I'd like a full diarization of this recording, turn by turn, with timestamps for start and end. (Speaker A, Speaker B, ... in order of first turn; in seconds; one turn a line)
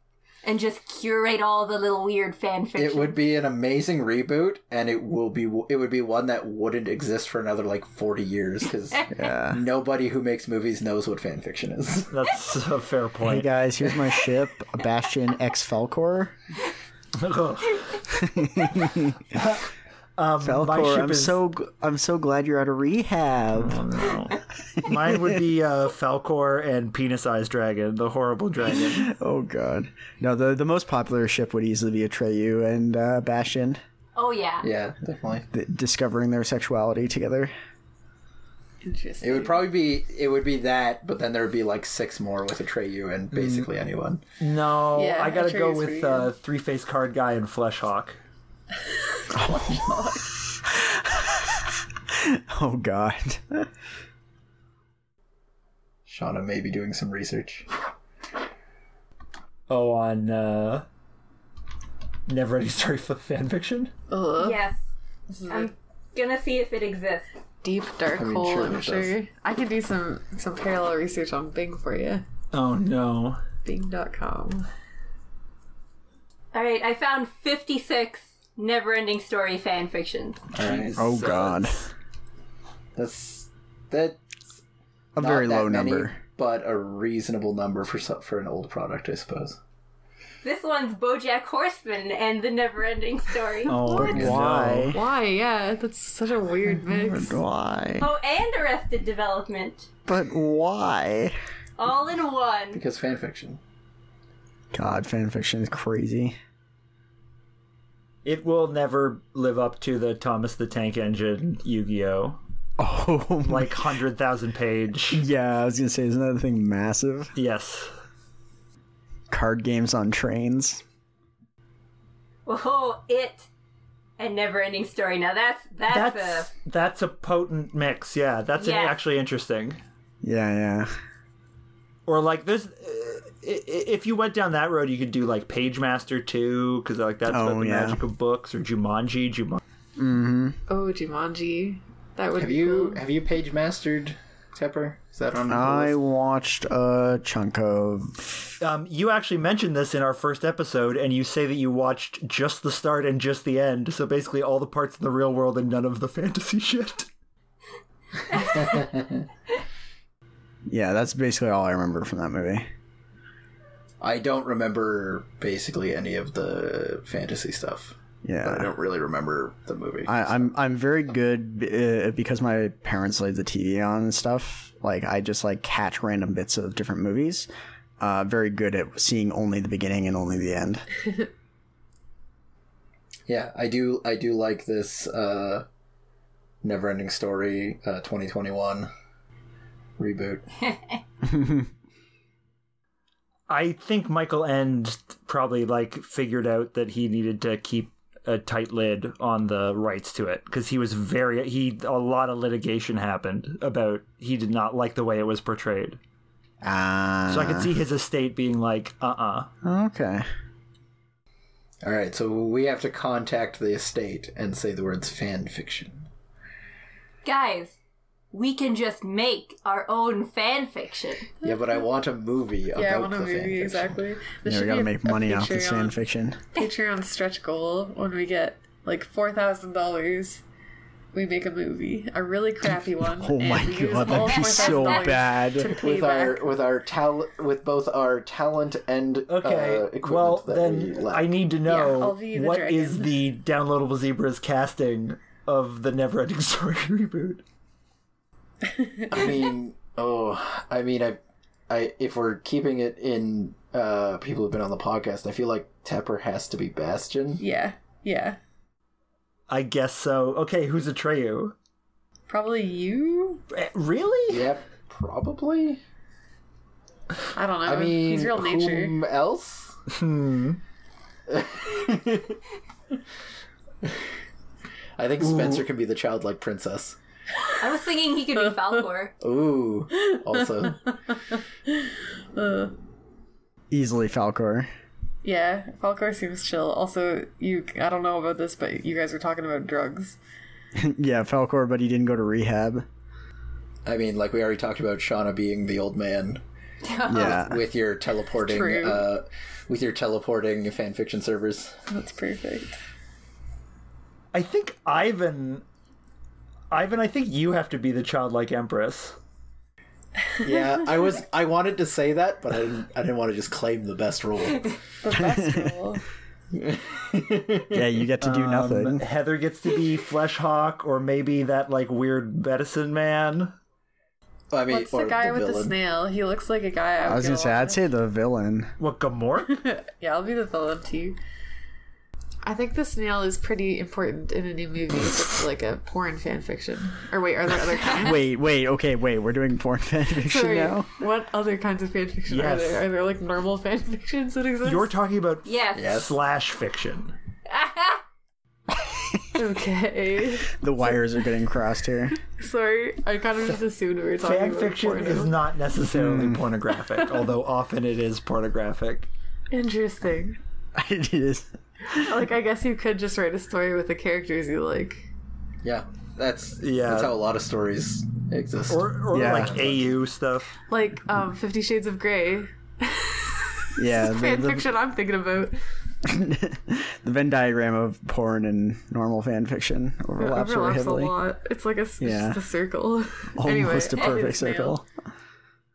Speaker A: 0.4-3.2
Speaker B: 2.8-12.1
Speaker C: 9.1-9.6
Speaker D: 12.1-13.5
Speaker C: 13.2-16.3
Speaker D: 17.2-18.0
Speaker C: 18.1-19.4
Speaker D: 19.3-21.4
Speaker C: 20.4-23.9
Speaker D: 23.6-29.1
Speaker C: 24.8-25.4
Speaker C: 28.7-33.8
Speaker A: 34.2-34.7
Speaker B: 34.6-35.5
Speaker C: 35.5-37.5
Speaker E: 38.8-39.7
Speaker B: 39.2-44.2
Speaker C: 43.3-43.7
Speaker D: 44.4-48.2
Speaker E: 44.9-46.3
Speaker E: 49.3-50.3
Speaker C: 49.4-49.8
Speaker C: 50.6-53.7
Speaker B: 56.1-57.7
Speaker D: 59.7-60.9
Speaker D: 62.3-63.9
Speaker E: 64.1-64.6
Speaker A: 64.4-64.8
Speaker E: 65.3-65.7
Speaker A: 65.5-67.3
Speaker E: 67.6-72.2
Speaker B: 68.1-69.1
Speaker D: 72.5-73.4
Speaker E: 73.7-74.7
Speaker A: 76.5-80.5
Speaker B: 80.5-81.0
Speaker D: 80.6-81.7
Speaker C: 81.0-81.8
Speaker B: 83.0-84.2
Speaker C: 85.2-86.2
Speaker B: 85.2-89.6
Speaker A: 90.4-94.2
Speaker D: 93.7-95.0
Speaker E: 93.9-94.2
Speaker C: 93.9-95.0
Speaker E: 94.9-97.4
Speaker C: 96.8-98.1
Speaker A: 98.0-99.9
Speaker C: 100.1-101.3
Speaker A: 101.8-102.8
Speaker B: 102.7-103.6
Speaker C: 104.7-106.4
Speaker D: 108.2-112.4
Speaker C: 112.8-113.8
Speaker D: 113.5-115.2
Speaker C: 115.1-117.3
Speaker D: 117.4-117.9
Speaker C: 119.3-120.8
Speaker A: 122.5-123.5
Speaker A: 124.2-126.5
Speaker D: 125.9-129.8
Speaker A: 128.6-129.0
Speaker C: 130.2-130.9
Speaker D: 132.1-139.6
Speaker C: 137.3-138.0
Speaker C: 140.0-140.6
Speaker E: 140.7-143.0
Speaker B: 142.3-145.9
Speaker C: 145.5-148.3
Speaker D: 148.6-157.1
Speaker B: 158.3-159.3
Speaker C: 160.7-162.7
Speaker B: 164.0-170.5
Speaker C: 168.2-168.7
Speaker C: 170.1-177.5
Speaker C: 178.0-180.9
Speaker B: 183.3-185.7
Speaker B: 186.6-188.9
Speaker B: 190.0-190.5
Speaker C: 191.2-191.7
Speaker D: 193.5-206.0
Speaker C: 206.6-207.7
Speaker D: 207.3-209.5
Speaker C: 209.6-210.3
Speaker B: 211.8-216.1
Speaker A: 217.2-217.8
Speaker A: 218.3-221.3
Speaker B: 221.4-224.0
Speaker E: 222.8-226.0
Speaker C: 224.5-226.4
Speaker E: 226.5-230.4
Speaker E: 231.1-236.5
Speaker C: 233.1-235.7
Speaker A: 234.3-235.0
Speaker B: 235.7-241.3
Speaker D: 239.3-247.4
Speaker E: 241.7-243.1
Speaker E: 248.7-249.2
Speaker B: 249.1-257.4
Speaker E: 257.4-258.4
Speaker D: 259.5-261.6
Speaker E: 262.3-263.4
Speaker D: 263.5-264.5
Speaker B: 264.3-265.8
Speaker E: 267.3-269.0
Speaker B: 267.7-269.8
Speaker D: 269.9-270.6
Speaker B: 271.3-272.4
Speaker B: 275.0-277.0
Speaker D: 275.2-275.6
Speaker A: 277.6-279.2
Speaker B: 279.2-280.9
Speaker E: 282.3-282.8
Speaker C: 283.7-284.7
Speaker E: 285.2-290.2
Speaker C: 290.8-292.9
Speaker B: 293.9-296.4
Speaker A: 296.8-297.4
Speaker C: 297.1-297.6
Speaker B: 297.1-301.8
Speaker E: 298.4-299.1
Speaker E: 301.9-302.8
Speaker D: 304.3-305.6
Speaker D: 306.7-309.2
Speaker B: 310.4-314.8
Speaker E: 315.0-316.0
Speaker C: 315.3-315.7
Speaker B: 316.5-317.9
Speaker C: 317.7-319.0
Speaker D: 318.2-323.5
Speaker B: 324.5-325.8
Speaker E: 324.7-327.8
Speaker C: 327.1-328.7
Speaker D: 328.8-329.7
Speaker E: 329.4-331.2
Speaker E: 332.4-338.2
Speaker C: 337.9-340.9
Speaker E: 340.2-344.9
Speaker D: 342.3-342.9
Speaker D: 344.6-347.1
Speaker A: 345.4-346.0
Speaker B: 345.8-346.2
Speaker A: 347.5-348.0
Speaker C: 348.9-349.2
Speaker E: 349.4-350.6
Speaker C: 350.5-352.2
Speaker E: 352.2-355.4
Speaker D: 354.2-359.1
Speaker C: 355.9-356.4
Speaker E: 359.5-360.4
Speaker C: 360.8-362.0
Speaker E: 361.9-365.1
Speaker B: 365.6-369.8
Speaker D: 366.6-367.2
Speaker D: 368.7-370.6
Speaker C: 369.1-369.7
Speaker E: 370.7-375.6
Speaker C: 373.8-374.7
Speaker C: 376.1-381.1
Speaker E: 380.2-384.8
Speaker C: 382.0-382.4
Speaker C: 383.4-384.9